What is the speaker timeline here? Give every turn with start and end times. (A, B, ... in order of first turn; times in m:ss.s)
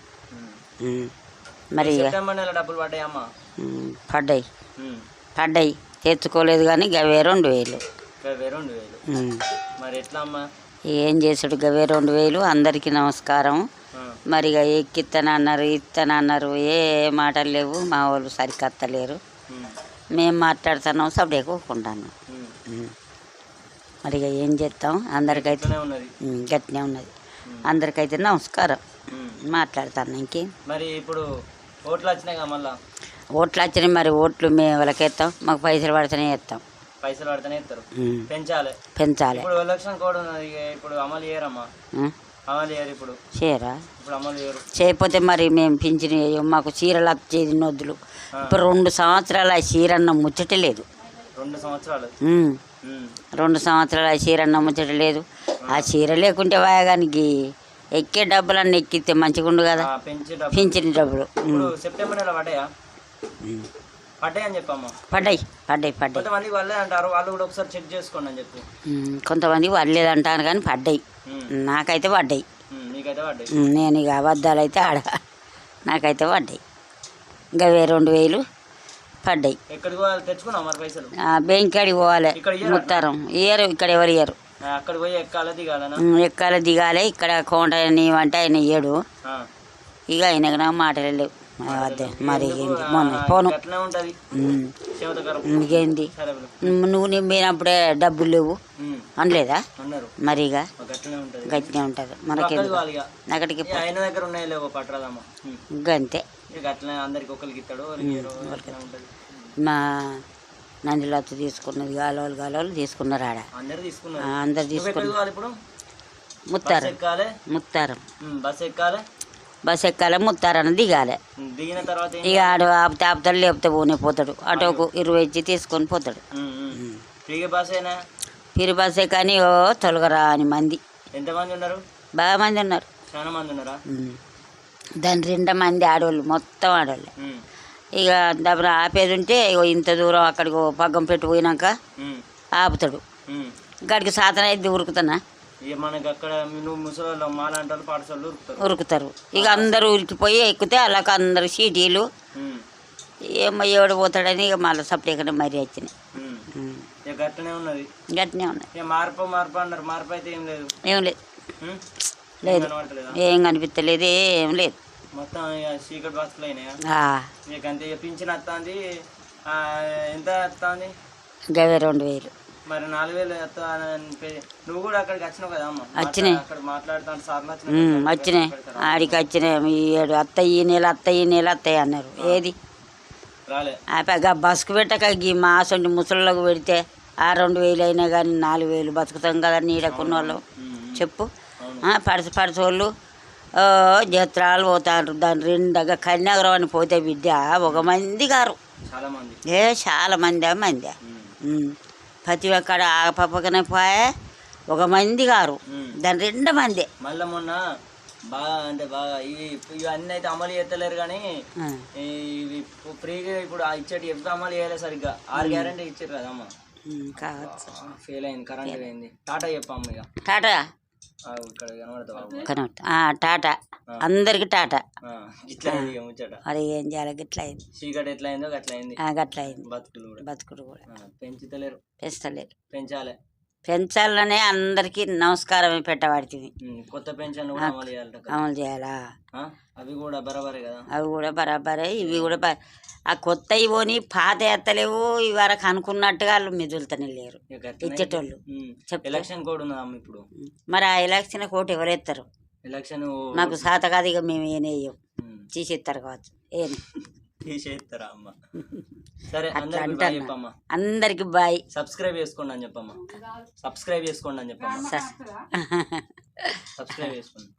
0:00.8-0:01.1 A
0:01.7-0:02.1 A
0:01.8-0:03.2 B
0:03.6-0:04.4 A
0:05.4-0:07.8 A
0:08.2-0:09.0 B
0:09.1-0:09.4 A
0:09.8-0:10.4 B
0:10.9-0:13.6 A
0:14.3-0:19.2 A
0:20.2-0:22.1 A
0:22.7-0:22.9 A
0:24.0-0:25.7 A
0:25.3-0:26.1 B
0:26.2-0:27.1 A
0:27.7-0:28.8 A
0:29.1-0:29.4 B
0:29.5-0:30.5 A
0:30.7-0:31.2 B
0:31.8-0:32.7 B
0:33.4-0:36.6 A
0:37.0-0:38.7 B
0:38.0-0:38.3 A
0:39.0-0:39.4 A
0:39.3-0:41.7 B
0:42.5-0:43.2 B
0:43.3-0:43.8 A
0:44.0-0:44.6 B
0:44.7-0:48.0 A
0:48.5-0:50.8 A
0:51.4-0:52.1 B
0:52.2-0:52.6 A
0:52.8-0:53.1 B
0:53.4-0:57.3 A
0:55.6-0:55.9 B
0:58.0-0:59.9 A
0:59.8-1:02.6 B
1:00.5-1:01.7 A
1:03.4-1:03.7 A
1:04.2-1:05.4 B
1:05.1-1:06.2 A
1:06.1-1:08.6 B
1:08.9-1:11.0 A
1:11.3-1:11.5 B
1:11.5-1:12.4 A
1:12.7-1:13.5 B
1:13.5-1:15.0 A
1:15.9-1:16.6 A
1:17.6-1:18.4 A
1:19.2-1:19.6 A
1:19.7-1:21.1 B
1:21.2-1:24.4 A
1:22.3-1:23.0 B
1:24.7-1:26.0 B
1:26.0-1:29.0 A
1:30.1-1:33.5 A
1:31.7-1:34.2 B
1:34.3-1:34.8 A
1:35.0-1:36.7 B
1:35.4-1:36.1 A
1:36.6-1:38.6 A
1:38.8-1:39.1 B
1:39.2-1:39.6 A
1:39.8-1:40.1 B
1:40.2-1:40.6 A
1:40.8-1:41.7 B
1:41.4-1:43.8 A
1:42.3-1:43.0 B
1:43.7-1:45.6 B
1:45.8-1:46.2 A
1:46.5-1:49.1 B
1:48.0-1:48.7 A
1:49.6-1:50.2 A
1:50.9-1:53.4 A
1:53.6-1:55.5 B
1:54.2-1:55.1 A
1:56.5-1:56.9 A
1:56.6-1:57.3 B
1:57.5-1:58.0 A
1:58.2-1:59.0 B
1:59.6-2:01.2 A
2:01.4-2:02.6 B
2:02.2-2:06.2 A
2:04.5-2:04.9 B
2:06.3-2:08.0 B
2:06.8-2:07.0 A
2:08.6-2:10.8 A
2:11.1-2:11.8 B
2:12.2-2:12.9 A
2:13.1-2:13.8 B
2:13.9-2:14.2 A
2:15.0-2:17.1 A
2:18.0-2:21.7 A
2:22.6-2:23.0 A
2:23.9-2:25.2 A
2:25.7-2:28.6 B
2:28.6-2:32.0 A
2:29.4-2:29.9 B
2:32.4-2:32.6 B
2:33.3-2:35.9 A
2:36.1-2:36.5 B
2:36.5-2:36.9 A
2:37.1-2:37.9 B
2:38.1-2:38.7 A
2:38.7-2:40.7 B
2:40.8-2:41.2 A
2:42.4-2:43.2 B
2:42.4-2:44.8 A
2:45.2-2:46.8 B
2:46.9-2:47.3 A
2:47.5-2:48.8 B
2:49.5-2:50.9 B
2:51.5-2:52.3 A
2:52.7-2:59.2 B
2:56.0-2:56.4 A
2:57.7-3:02.5 A
3:03.5-3:03.8 B
3:03.9-3:10.4 A
3:09.8-3:11.0 B
3:11.0-3:11.3 A
3:11.6-3:11.9 B
3:11.8-3:12.9 A
3:13.6-3:18.6 A
3:17.6-3:17.9 B
3:18.9-3:19.4 B
3:19.5-3:24.1 A
3:21.0-3:21.3 B
3:24.7-3:26.9 A
3:25.7-3:26.0 B
3:27.0-3:27.6 B
3:28.3-3:31.2 B
3:31.6-3:31.8 A
3:32.0-3:36.5 B
3:35.4-3:35.7 A
3:36.9-3:37.7 A
3:37.2-3:40.1 B
3:40.2-3:40.6 A
3:41.3-3:42.5 B
3:42.4-3:44.8 A
3:45.0-3:46.4 B
3:45.7-3:45.9 A
3:46.5-3:47.6 A
3:47.8-3:50.2 B
3:49.0-3:49.6 A
3:50.2-3:50.8 A
3:50.9-3:51.8 B
3:52.0-3:52.5 A
3:52.7-3:53.1 B
3:53.7-3:56.5 A
3:56.6-3:58.4 B
3:57.6-3:59.0 A
3:59.4-4:00.8 B
4:00.9-4:02.6 A
4:02.0-4:02.4 B
4:03.1-4:09.2 A
4:07.5-4:10.2 B
4:10.5-4:12.2 A
4:12.7-4:13.6 B
4:13.4-4:15.0 A
4:15.2-4:15.5 B
4:15.5-4:16.8 A
4:16.8-4:20.5 B
4:19.6-4:21.6 A
4:21.7-4:25.0 B
4:24.8-4:26.6 A
4:26.8-4:27.5 B